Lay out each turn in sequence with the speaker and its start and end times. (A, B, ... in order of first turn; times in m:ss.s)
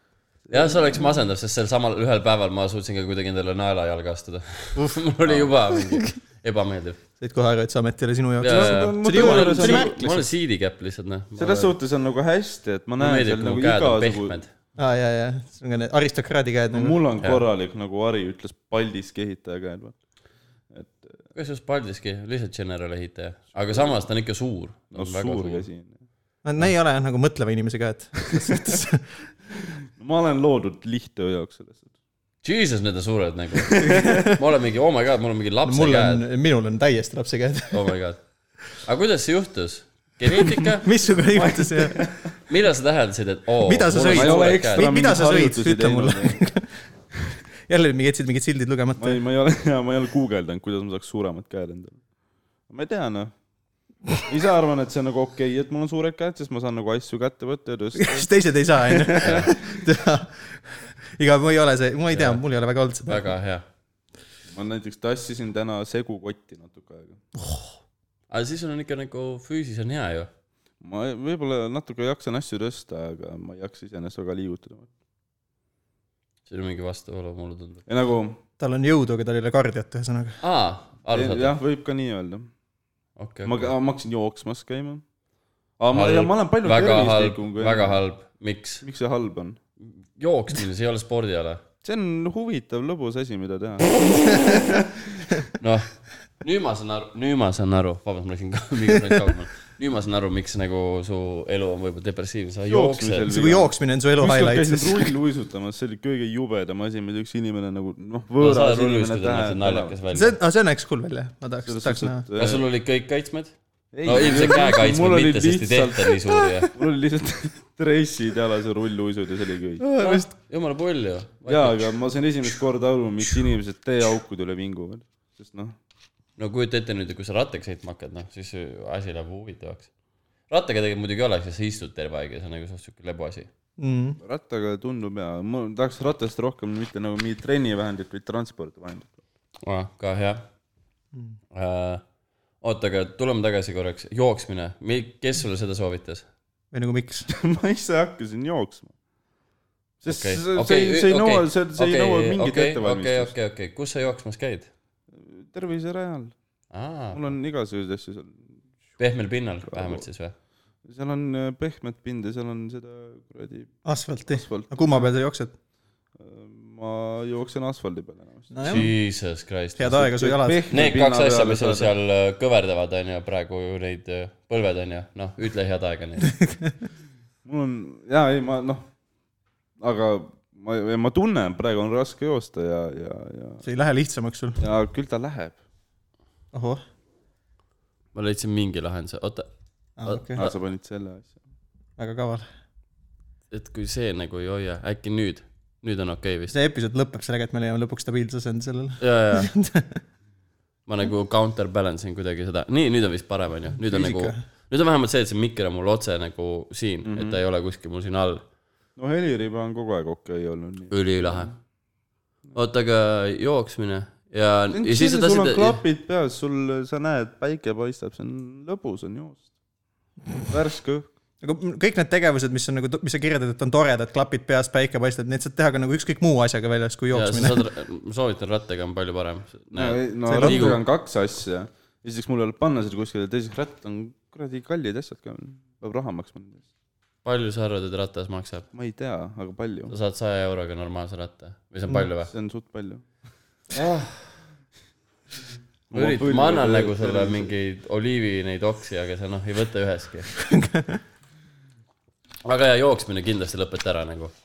0:00.5-0:01.1 A
0:00.5-0:07.0 B
0:05.2-0:05.5 A
0:07.2-0:10.0 C
0:08.4-0:11.7 B
0:08.4-0:10.2 A
0:11.4-0:14.4 A
0:13.0-0:14.5 B
0:14.8-0:17.0 C
0:16.7-0:20.0 A
0:20.7-0:21.2 A
0:21.3-0:25.6 B
0:23.6-0:24.0 A
0:24.9-0:25.9 A
0:26.4-0:29.1 C
0:29.9-0:31.9 A
0:32.4-0:36.2 B
0:33.7-0:34.1 A
0:33.8-0:34.4 C
0:35.6-0:37.9 C
0:37.7-0:40.9 B
0:40.8-0:42.0 C
0:41.3-0:42.3 A
0:42.5-0:44.9 B
0:43.6-0:46.8 C
0:44.0-0:46.4 A
0:47.6-0:49.2 C
0:49.0-0:52.0 A
0:52.7-0:53.3 A
0:54.3-0:59.6 A
0:57.9-1:03.3 C
0:59.2-0:59.5 B
1:02.1-1:02.4 B
1:03.0-1:03.6 B
1:04.5-1:07.2 A
1:07.4-1:07.7 C
1:08.3-1:10.3 B
1:10.8-1:14.9 A
1:16.5-1:17.8 B
1:17.9-1:18.4 A
1:18.6-1:20.4 C
1:20.4-1:21.5 B
1:21.1-1:22.5 A
1:23.2-1:23.7 B
1:23.4-1:25.0 A
1:25.8-1:28.0 A
1:25.9-1:28.8 B
1:28.8-1:29.6 A
1:29.8-1:31.6 B
1:31.8-1:35.2 A
1:35.6-1:43.3 B
1:42.7-1:50.0 A
1:43.3-1:45.1 C
1:48.4-1:50.4 B
1:50.1-1:52.2 C
1:51.6-1:52.6 A
1:52.4-1:56.7 B
1:53.9-1:56.1 A
1:56.7-1:59.8 A
1:59.8-2:00.3 C
2:00.0-2:01.9 B
2:01.4-2:05.8 A
2:06.4-2:09.9 B
2:10.5-2:13.5 B
2:13.8-2:14.2 C
2:14.2-2:19.2 A
2:19.6-2:20.4 B
2:21.5-2:22.0 B
2:22.6-2:26.2 B
2:26.7-2:27.3 C
2:27.3-2:28.9 A
2:30.0-2:33.3 A
2:30.1-2:34.7 B
2:35.1-2:36.3 A
2:36.7-2:37.2 B
2:37.1-2:38.5 A
2:39.0-2:40.3 B
2:39.7-2:40.0 A
2:40.8-2:45.1 A
2:43.8-2:45.5 C
2:46.2-2:48.9 A
2:48.5-2:48.9 C
2:48.6-2:56.4 B
2:49.8-2:50.6 C
2:50.0-2:51.9 A
2:56.4-2:56.7 C
2:57.4-2:58.9 A
2:59.8-3:03.6 A
3:03.6-3:04.6 C
3:04.6-3:05.6 A
3:06.5-3:06.8 C
3:08.1-3:09.5 B
3:10.0-3:10.4 C
3:10.0-3:10.5 B
3:10.4-3:11.4 A
3:12.0-3:12.4 C
3:13.5-3:16.5 B
3:16.5-3:20.0 C
3:19.0-3:19.5 B
3:20.9-3:28.4 B
3:23.8-3:24.4 C
3:27.0-3:27.4 A
3:29.0-3:31.5 A
3:30.9-3:31.5 B
3:32.5-3:35.8 B
3:34.7-3:39.5 A
3:40.5-3:41.1 A
3:41.4-3:47.6 C
3:47.1-3:50.8 B
3:49.7-3:56.6 A
3:50.3-3:50.7 C
3:57.2-3:58.7 B
3:58.7-3:59.9 A
3:59.9-4:02.3 B
4:02.3-4:03.0 A
4:03.7-4:04.4 B
4:05.9-4:07.5 A
4:05.9-4:10.3 B
4:10.5-4:11.0 C
4:12.4-4:14.3 B